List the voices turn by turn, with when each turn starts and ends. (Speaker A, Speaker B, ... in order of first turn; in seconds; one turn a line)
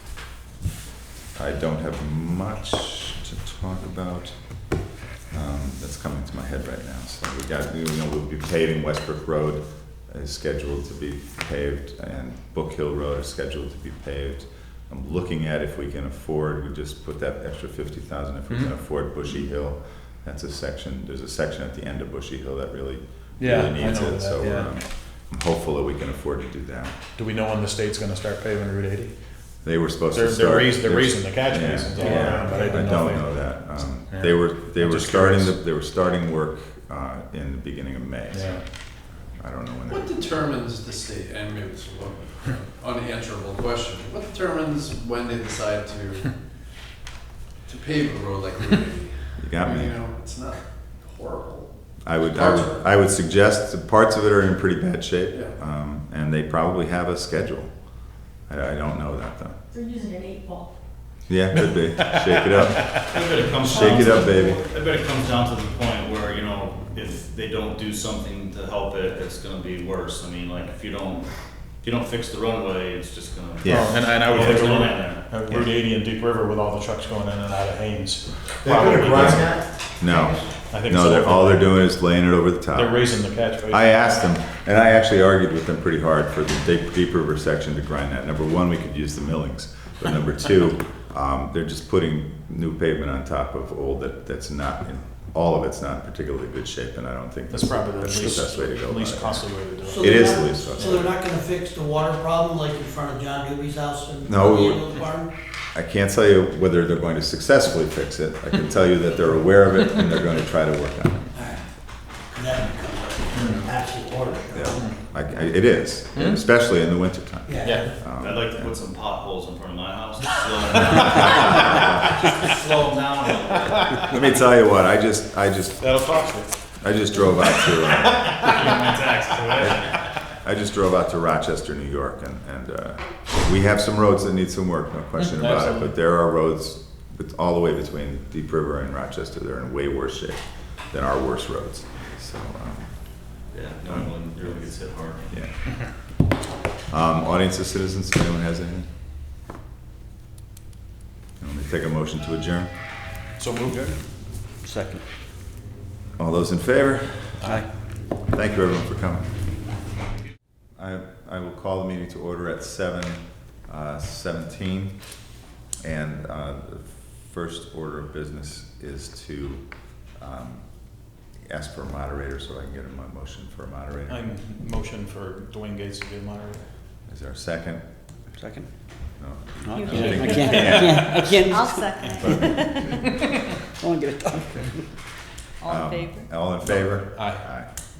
Speaker A: 1.4-26.9
Speaker B: 23.4-24.7
Speaker B: 27.2-29.1
Speaker A: 29.6-38.6
Speaker B: 30.1-33.5
Speaker C: 32.0-32.4
Speaker D: 32.5-32.7
Speaker B: 34.1-35.6
Speaker B: 38.3-38.6
Speaker A: 39.2-40.4
Speaker C: 39.9-46.4
Speaker C: 47.7-51.7
Speaker A: 49.4-50.0
Speaker A: 52.0-59.6
Speaker C: 52.3-52.8
Speaker E: 59.7-60.7
Speaker A: 61.3-64.6
Speaker B: 61.5-63.1
Speaker F: 63.0-71.3
Speaker F: 71.8-75.3
Speaker A: 73.6-74.9
Speaker B: 73.7-79.6
Speaker D: 78.6-80.5
Speaker A: 79.1-79.5
Speaker A: 80.0-101.1
Speaker B: 80.7-81.8
Speaker B: 82.8-84.3
Speaker B: 97.5-100.6
Speaker D: 99.8-105.3
Speaker A: 104.2-105.0
Speaker A: 105.7-111.3
Speaker D: 111.4-111.6
Speaker D: 112.3-114.9
Speaker A: 114.5-118.8
Speaker B: 116.2-116.4
Speaker D: 117.5-117.9
Speaker B: 117.6-117.9
Speaker F: 118.2-124.2
Speaker B: 121.3-122.0
Speaker A: 121.4-121.9
Speaker A: 124.0-126.0
Speaker B: 125.8-129.0
Speaker A: 126.8-128.7
Speaker F: 128.1-130.1
Speaker A: 129.6-143.3
Speaker B: 135.2-135.9
Speaker F: 143.5-145.3
Speaker A: 145.3-146.1
Speaker A: 146.9-148.9
Speaker A: 151.4-152.7
Speaker B: 153.4-154.0
Speaker G: 154.6-155.0
Speaker A: 156.2-157.6
Speaker B: 157.4-157.7
Speaker A: 158.3-159.3
Speaker A: 160.8-165.3
Speaker A: 165.8-174.4
Speaker B: 174.1-176.7
Speaker A: 177.1-177.8
Speaker G: 178.4-178.7
Speaker A: 179.2-183.3
Speaker G: 179.6-182.6
Speaker E: 179.7-180.6
Speaker B: 179.9-181.4
Speaker E: 181.4-183.3
Speaker G: 183.8-184.9
Speaker A: 184.3-184.8
Speaker A: 185.6-187.7
Speaker E: 185.6-186.3
Speaker B: 186.6-187.5